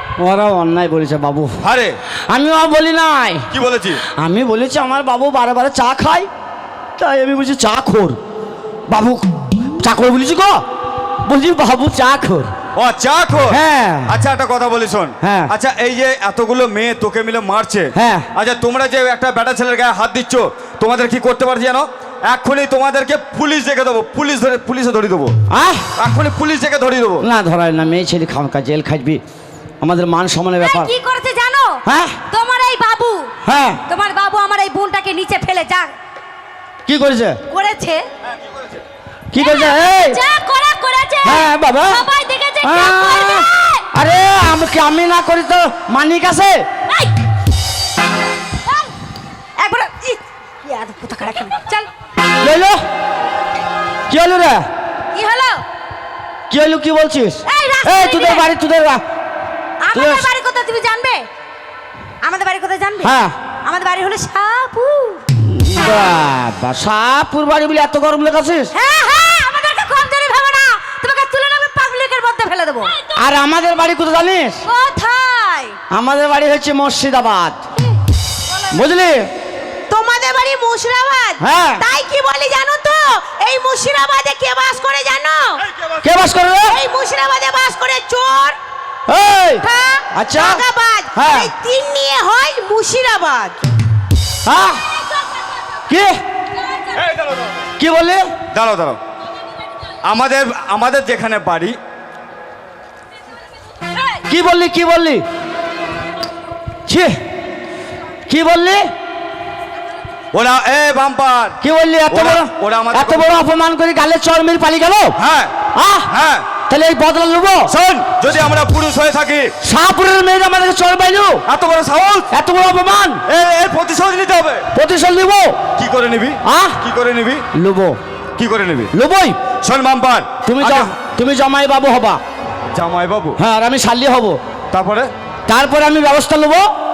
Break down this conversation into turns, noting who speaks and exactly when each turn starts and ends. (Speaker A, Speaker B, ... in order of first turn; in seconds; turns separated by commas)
Speaker A: 0.2-1.6, Speaker B: 1.6-2.0, Speaker A: 2.3-3.5, Speaker B: 3.5-4.0, Speaker A: 4.1-6.3, Speaker A: 7.0-8.2, Speaker A: 8.9-10.6, Speaker A: 11.2-12.5, Speaker B: 12.8-25.4, Speaker A: 13.5-14.1, Speaker A: 15.2-15.5, Speaker A: 17.9-18.3, Speaker A: 25.5-25.9, Speaker B: 25.9-27.2, Speaker A: 27.2-29.2, Speaker A: 29.8-30.9, Speaker C: 30.6-33.3, Speaker A: 31.8-32.2, Speaker A: 33.4-33.8, Speaker C: 33.9-35.9, Speaker A: 36.9-37.4, Speaker C: 37.5-38.0, Speaker A: 39.3-40.2, Speaker C: 39.3-43.8, Speaker A: 41.2-42.0, Speaker A: 42.6-46.7, Speaker C: 49.6-51.9, Speaker A: 52.4-52.8, Speaker A: 54.1-54.7, Speaker C: 55.1-55.6, Speaker A: 56.5-59.0, Speaker C: 57.4-58.5, Speaker C: 59.8-61.3, Speaker A: 59.9-60.3, Speaker C: 62.2-65.2, Speaker A: 63.0-63.4, Speaker A: 65.3-68.7, Speaker C: 68.7-73.0, Speaker A: 73.1-74.6, Speaker C: 74.6-75.8, Speaker A: 75.9-77.6, Speaker A: 78.7-79.3, Speaker D: 79.9-85.6, Speaker A: 81.4-81.8, Speaker A: 86.0-86.8, Speaker D: 86.7-88.6, Speaker A: 89.1-90.6, Speaker D: 89.6-93.6, Speaker A: 91.1-91.5, Speaker A: 94.4-94.8, Speaker A: 95.9-96.2, Speaker B: 97.0-97.6, Speaker A: 97.8-98.3, Speaker B: 98.5-99.0, Speaker B: 100.0-101.8, Speaker A: 104.2-105.2, Speaker A: 106.9-107.2, Speaker A: 108.3-108.9, Speaker B: 110.3-111.6, Speaker A: 111.6-115.2, Speaker B: 112.1-113.3, Speaker B: 115.2-115.6, Speaker A: 115.7-116.1, Speaker B: 116.1-116.5, Speaker A: 116.7-117.7, Speaker B: 117.7-119.5, Speaker A: 119.6-121.4, Speaker B: 121.5-122.3, Speaker A: 122.3-123.2, Speaker B: 123.3-124.7, Speaker A: 124.7-125.6, Speaker B: 125.7-127.5, Speaker A: 126.4-126.8, Speaker A: 127.5-128.0, Speaker B: 128.3-128.9, Speaker A: 128.9-129.4, Speaker B: 129.6-130.9, Speaker A: 130.4-132.2, Speaker B: 132.7-133.4, Speaker A: 133.4-134.4, Speaker B: 134.7-135.1, Speaker A: 135.5-136.7